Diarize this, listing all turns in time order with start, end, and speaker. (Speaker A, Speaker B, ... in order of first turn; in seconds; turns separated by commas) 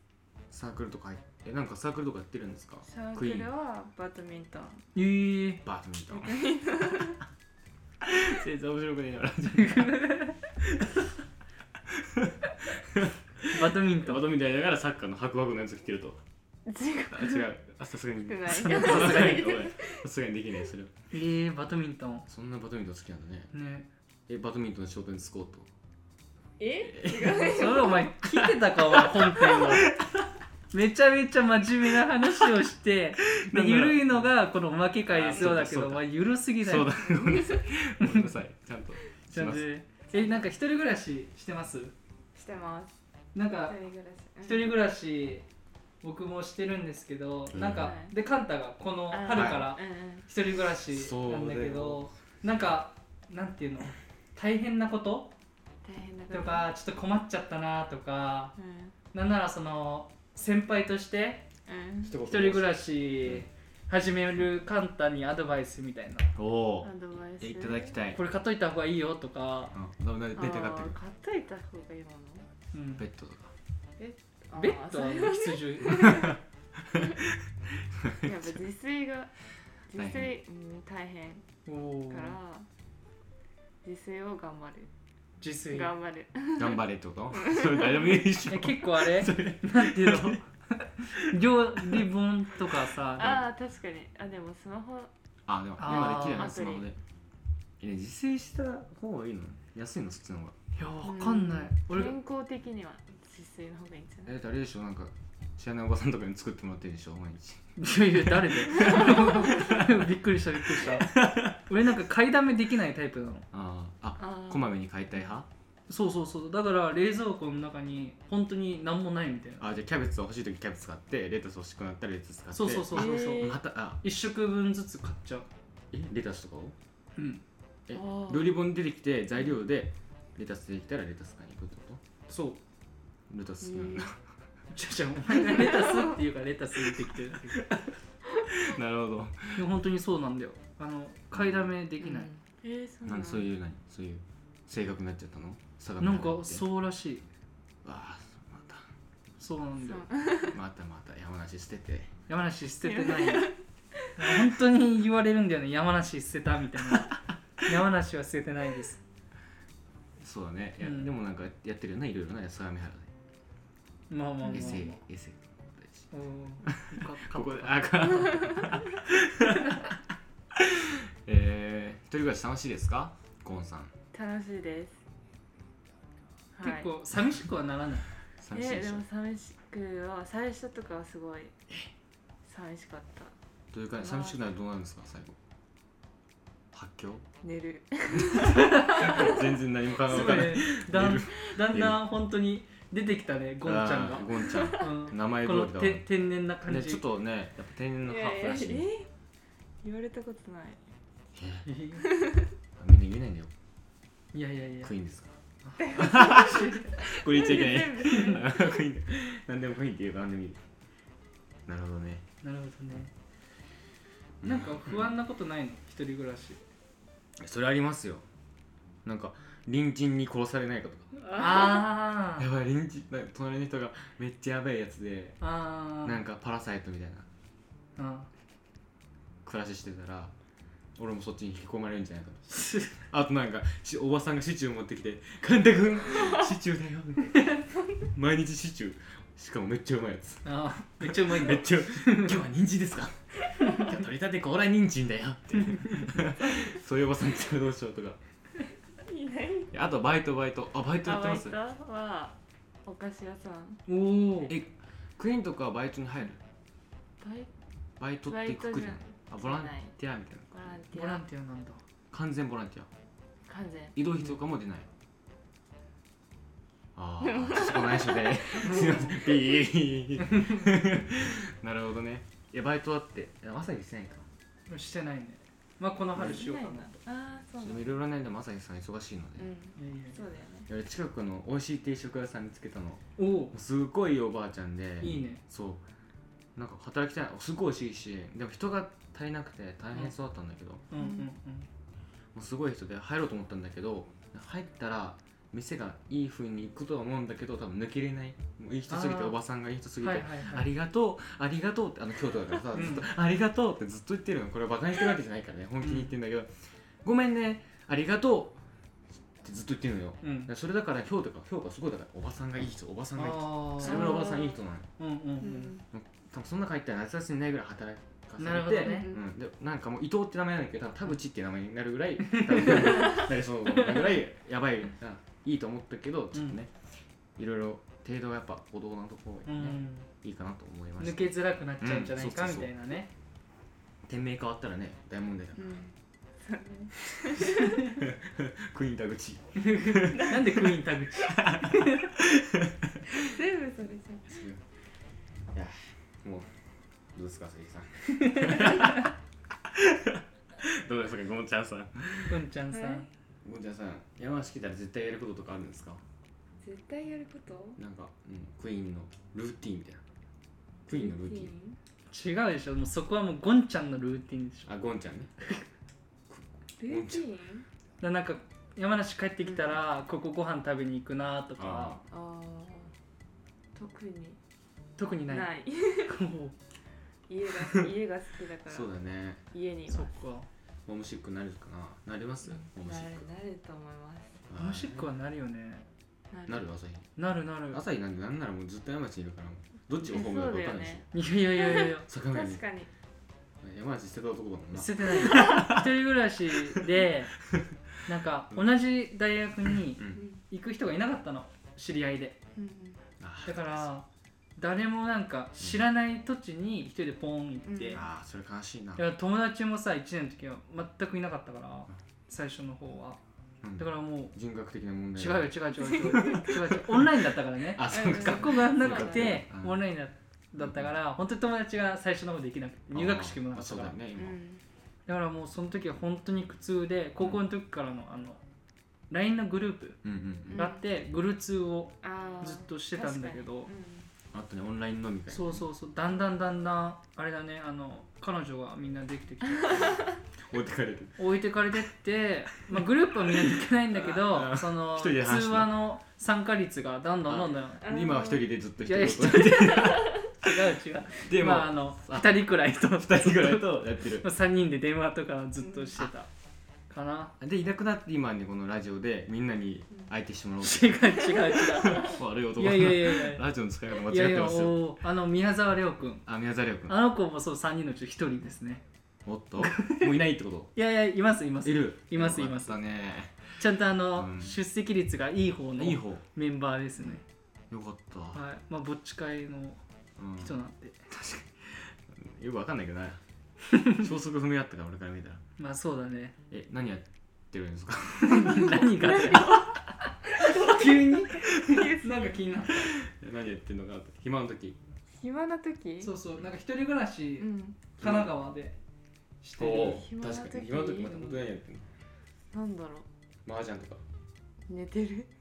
Speaker A: 0.5-3.5, Speaker B: 2.9-4.9, Speaker C: 5.0-5.6, Speaker A: 5.6-7.1, Speaker B: 6.1-7.2, Speaker A: 8.0-11.1, Speaker C: 9.6-10.3, Speaker A: 11.9-16.2, Speaker C: 13.5-14.2, Speaker B: 16.7-17.5, Speaker A: 17.1-20.9, Speaker B: 18.3-20.1, Speaker C: 18.6-19.4, Speaker C: 21.1-22.3, Speaker A: 22.3-23.5, Speaker C: 23.5-23.9, Speaker A: 24.3-25.7, Speaker B: 26.6-28.1, Speaker A: 26.8-30.2, Speaker C: 27.4-29.9, Speaker C: 30.7-36.9, Speaker A: 33.4-34.3, Speaker A: 35.1-36.1, Speaker A: 36.6-39.6, Speaker B: 37.0-37.6, Speaker C: 38.0-38.3, Speaker C: 39.3-41.9, Speaker B: 40.1-40.4, Speaker B: 42.4-42.9, Speaker C: 43.4-43.8, Speaker B: 43.7-44.7, Speaker C: 44.4-45.5, Speaker C: 46.0-55.3, Speaker A: 47.5-47.9, Speaker B: 47.6-48.1, Speaker B: 49.1-50.3, Speaker A: 49.3-49.7, Speaker A: 50.9-52.1, Speaker B: 55.8-56.7, Speaker C: 56.3-58.5, Speaker B: 58.6-59.0, Speaker C: 59.1-61.5, Speaker B: 61.7-62.2, Speaker A: 62.0-63.5, Speaker C: 62.2-66.3, Speaker A: 66.4-68.2, Speaker B: 66.8-68.0, Speaker C: 68.1-69.8, Speaker A: 69.7-71.0, Speaker B: 70.3-72.5, Speaker C: 72.7-73.0, Speaker A: 73.0-73.5, Speaker B: 74.0-76.3, Speaker C: 74.5-76.3, Speaker A: 76.0-78.6, Speaker B: 78.2-79.3, Speaker B: 79.9-81.5, Speaker A: 80.0-80.3, Speaker C: 81.7-82.4, Speaker B: 82.1-82.7, Speaker B: 83.8-84.9, Speaker C: 85.4-85.9, Speaker B: 85.7-88.2, Speaker A: 86.6-90.4, Speaker C: 88.5-93.4, Speaker A: 91.1-92.0, Speaker A: 92.7-93.4, Speaker B: 93.2-95.1, Speaker A: 95.5-97.0, Speaker C: 95.8-96.5, Speaker B: 96.0-96.9, Speaker A: 97.8-100.5, Speaker C: 100.8-102.1, Speaker B: 101.0-104.3, Speaker A: 104.3-110.0, Speaker C: 107.8-113.5, Speaker A: 110.7-111.6, Speaker A: 113.5-115.5, Speaker B: 114.2-114.7, Speaker C: 115.9-119.7, Speaker A: 119.6-124.0, Speaker C: 122.5-125.5, Speaker B: 122.9-123.6, Speaker A: 125.9-126.8, Speaker C: 127.2-127.4, Speaker A: 127.9-132.0, Speaker B: 127.9-128.5, Speaker C: 132.3-132.6, Speaker A: 133.3-134.2, Speaker B: 133.6-134.1, Speaker C: 134.7-137.7, Speaker B: 135.5-136.1, Speaker A: 137.5-137.9, Speaker A: 138.5-139.6, Speaker C: 139.6-142.3, Speaker A: 141.3-141.7, Speaker B: 142.0-143.5, Speaker A: 143.1-146.6, Speaker C: 146.0-147.2, Speaker A: 147.8-148.9, Speaker C: 149.4-150.1, Speaker B: 149.8-150.6, Speaker A: 150.5-152.1, Speaker C: 152.3-153.5, Speaker B: 152.8-153.6, Speaker C: 154.2-159.0, Speaker A: 160.2-163.1, Speaker C: 160.8-161.1, Speaker C: 164.1-165.0, Speaker A: 164.5-166.1, Speaker C: 166.1-168.5, Speaker A: 166.6-170.0, Speaker A: 170.5-173.9, Speaker B: 174.1-175.0, Speaker B: 176.6-176.9, Speaker C: 176.6-178.1, Speaker A: 178.4-179.0, Speaker B: 178.5-181.6, Speaker B: 182.4-183.3, Speaker A: 183.7-185.4, Speaker B: 184.0-184.4, Speaker A: 186.7-187.2, Speaker B: 187.4-189.5, Speaker A: 188.2-192.0, Speaker C: 188.6-189.2, Speaker C: 190.1-197.0, Speaker A: 193.6-196.1, Speaker B: 194.5-194.9, Speaker A: 196.7-198.9, Speaker B: 198.1-199.1, Speaker B: 199.8-200.8, Speaker A: 201.3-201.7, Speaker C: 201.7-202.1, Speaker B: 202.0-202.5, Speaker A: 202.8-203.5, Speaker C: 204.3-204.9, Speaker A: 204.8-205.4, Speaker C: 205.7-206.9, Speaker B: 205.8-208.7, Speaker A: 205.9-210.6, Speaker C: 208.1-208.4, Speaker A: 211.7-212.2, Speaker C: 212.4-213.1, Speaker A: 214.4-215.1, Speaker C: 214.4-216.6, Speaker A: 217.4-218.3, Speaker A: 219.1-221.1, Speaker C: 221.3-222.5, Speaker A: 222.4-225.4, Speaker C: 225.4-226.2, Speaker A: 226.0-227.3, Speaker C: 228.0-228.3, Speaker A: 229.4-230.3, Speaker A: 231.0-248.2, Speaker C: 232.5-232.9, Speaker C: 240.4-242.4, Speaker C: 245.6-246.1, Speaker B: 249.0-249.7, Speaker A: 249.7-251.6, Speaker B: 251.0-252.3, Speaker B: 252.9-253.8, Speaker C: 253.9-254.5, Speaker A: 254.5-256.4, Speaker B: 257.2-257.5, Speaker A: 258.0-260.6, Speaker B: 258.3-259.9, Speaker B: 260.5-261.2, Speaker C: 260.9-261.8, Speaker A: 262.1-262.9, Speaker B: 263.5-263.9, Speaker A: 263.9-264.9, Speaker A: 266.9-274.3, Speaker B: 267.2-269.4, Speaker C: 268.7-269.0, Speaker C: 270.2-270.7, Speaker C: 274.7-277.0, Speaker B: 276.2-278.0, Speaker A: 277.6-279.5, Speaker B: 279.4-280.7, Speaker C: 279.8-280.2, Speaker A: 280.7-285.8, Speaker C: 283.2-283.5, Speaker C: 285.0-285.4, Speaker A: 286.6-290.9, Speaker C: 290.9-291.7, Speaker B: 291.0-291.3, Speaker A: 292.3-308.6, Speaker C: 298.9-299.4, Speaker C: 300.0-300.7, Speaker C: 302.7-303.1, Speaker C: 305.8-306.1, Speaker A: 309.4-314.9, Speaker C: 310.2-310.5, Speaker C: 313.2-314.2, Speaker B: 313.8-314.6, Speaker C: 315.0-315.8, Speaker B: 315.4-315.8, Speaker A: 315.9-326.8, Speaker C: 318.4-319.1, Speaker B: 318.8-319.2, Speaker C: 322.3-323.2, Speaker A: 327.4-332.7, Speaker C: 329.5-330.1, Speaker C: 331.0-333.1, Speaker A: 334.1-335.7, Speaker B: 335.6-337.8, Speaker A: 337.4-343.3, Speaker C: 339.6-342.1, Speaker B: 343.1-344.4, Speaker A: 344.3-344.6, Speaker A: 345.5-346.5, Speaker A: 347.1-352.5, Speaker C: 348.1-349.1, Speaker C: 352.3-353.1, Speaker B: 352.7-353.0, Speaker A: 353.4-356.0, Speaker B: 356.6-357.8, Speaker A: 357.8-360.0, Speaker A: 360.9-361.5, Speaker B: 360.9-361.8, Speaker C: 362.1-364.7, Speaker A: 364.7-365.3, Speaker A: 366.3-367.2, Speaker B: 366.8-367.7, Speaker C: 368.0-372.0, Speaker B: 369.4-369.8, Speaker A: 371.6-372.0, Speaker B: 372.1-372.9, Speaker B: 373.8-374.4, Speaker C: 375.0-375.5, Speaker B: 375.2-376.2, Speaker C: 376.1-376.6, Speaker B: 377.3-378.9, Speaker A: 378.7-379.4, Speaker B: 379.5-380.2, Speaker C: 379.9-380.5, Speaker A: 380.9-383.2, Speaker B: 382.4-384.4, Speaker A: 384.5-385.1, Speaker C: 384.6-385.9, Speaker B: 386.3-386.6, Speaker A: 386.5-387.1, Speaker C: 387.2-387.8, Speaker A: 387.7-391.1, Speaker B: 390.0-391.1, Speaker C: 391.1-392.1, Speaker B: 391.6-392.9, Speaker A: 392.1-392.6, Speaker A: 393.6-395.9, Speaker C: 394.7-397.4, Speaker A: 397.5-397.8, Speaker C: 398.1-402.4, Speaker A: 399.7-400.2, Speaker B: 400.1-400.4, Speaker B: 402.6-403.0, Speaker A: 403.2-403.9, Speaker C: 403.5-404.1, Speaker C: 404.6-408.0, Speaker B: 407.7-408.0, Speaker A: 407.9-409.1, Speaker C: 409.0-413.2, Speaker A: 413.6-419.8, Speaker C: 413.8-414.3, Speaker C: 415.2-424.0, Speaker B: 417.9-419.4, Speaker A: 420.6-420.9, Speaker A: 422.9-424.4, Speaker B: 424.2-424.6, Speaker C: 425.1-428.4, Speaker C: 429.1-430.0, Speaker A: 430.0-430.6, Speaker B: 430.5-430.8, Speaker C: 430.6-433.7, Speaker B: 432.0-434.1, Speaker A: 434.3-435.6, Speaker C: 435.3-440.0, Speaker B: 439.7-440.1, Speaker A: 440.5-441.2, Speaker C: 441.2-447.9, Speaker A: 442.7-445.8, Speaker A: 447.3-450.5, Speaker B: 447.8-448.5, Speaker C: 448.8-456.3, Speaker A: 451.2-454.3, Speaker B: 455.6-455.9, Speaker C: 456.9-457.4, Speaker A: 457.4-464.8, Speaker C: 460.6-463.4, Speaker C: 464.1-466.2, Speaker A: 466.3-466.9, Speaker C: 466.9-468.8, Speaker A: 469.2-470.7, Speaker C: 469.6-470.1, Speaker C: 470.8-472.8, Speaker A: 471.6-473.6, Speaker C: 473.6-477.2, Speaker A: 474.1-474.6, Speaker A: 475.8-476.2, Speaker A: 477.7-478.4, Speaker C: 478.3-479.8, Speaker A: 480.2-480.6, Speaker C: 480.4-481.1, Speaker A: 481.1-483.2, Speaker C: 483.7-484.1, Speaker A: 483.9-485.4, Speaker C: 485.6-486.4, Speaker A: 486.5-489.6, Speaker C: 488.2-489.8, Speaker C: 490.3-492.9, Speaker B: 490.6-492.3, Speaker A: 492.7-494.8, Speaker B: 495.1-496.1, Speaker C: 496.0-498.8, Speaker B: 497.4-497.8, Speaker A: 498.0-498.3, Speaker C: 499.4-500.1, Speaker A: 499.6-501.9, Speaker B: 499.7-501.3, Speaker B: 502.5-503.1, Speaker A: 503.4-504.0, Speaker B: 504.7-505.3